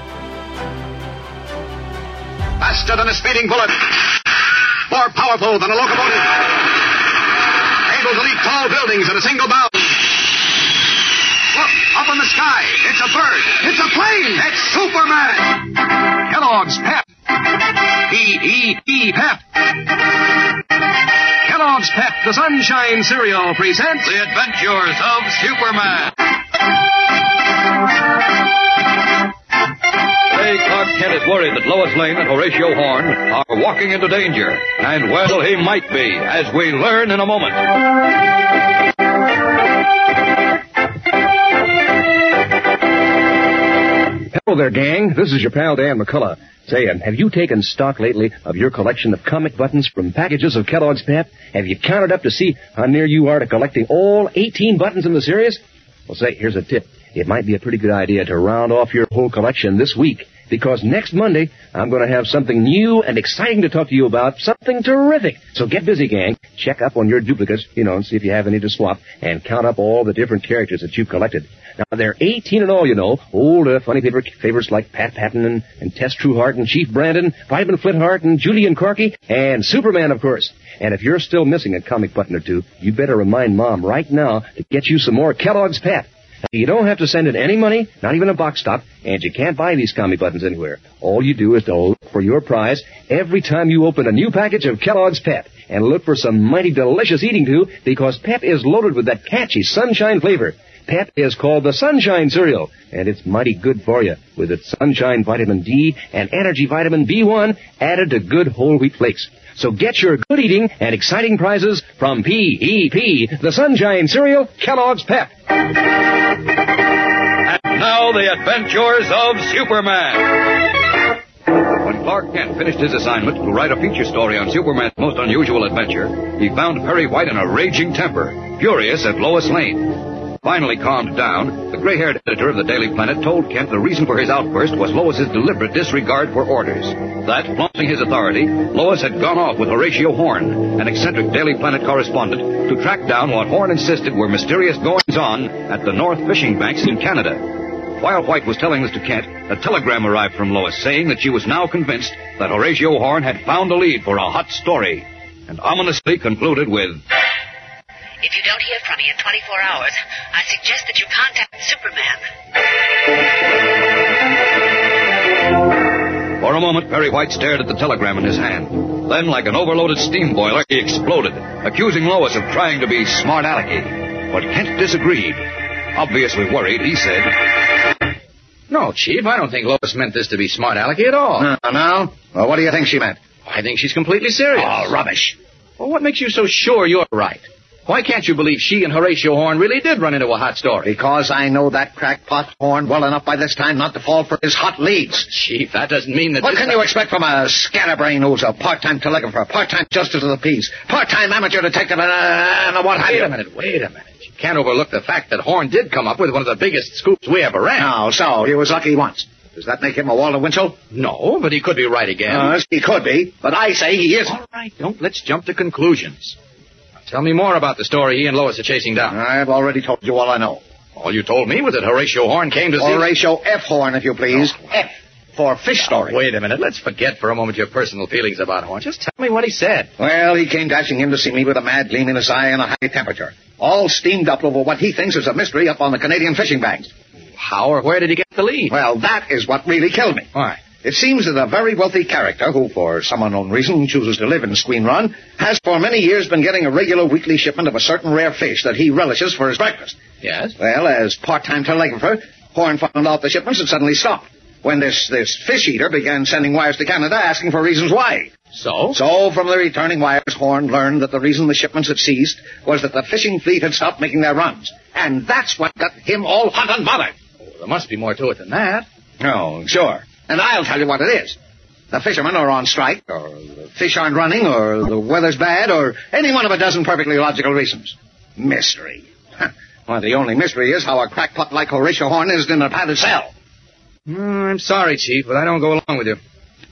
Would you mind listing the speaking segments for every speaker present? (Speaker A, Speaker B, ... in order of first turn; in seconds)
Speaker A: 2.6-4.3, 4.9-7.1, 7.8-10.3, 11.5-14.1, 14.7-15.0
Speaker B: 22.0-23.8, 44.3-115.3
Speaker C: 24.0-26.2, 30.3-37.8, 117.4-120.8, 121.5-157.0, 166.3-177.7
Speaker D: 158.2-162.2
Speaker E: 178.7-181.5, 183.5-184.9, 185.8-190.9, 195.3-196.9, 203.0-207.9, 210.9-212.6, 214.3-216.4, 217.1-219.1, 221.0-223.1, 225.8-229.9, 237.4-238.7, 240.3-240.6, 250.2-250.6, 258.5-259.0, 267.5-268.9, 284.1-286.2
Speaker F: 181.4-183.2, 184.5-185.4, 190.8-195.3, 196.4-203.4, 207.8-210.8, 212.3-214.3, 219.1-220.6, 222.8-226.2, 230.0-236.9, 238.7-240.3, 240.8-250.0, 250.6-258.3, 258.9-267.1, 269.2-271.4, 271.9-283.3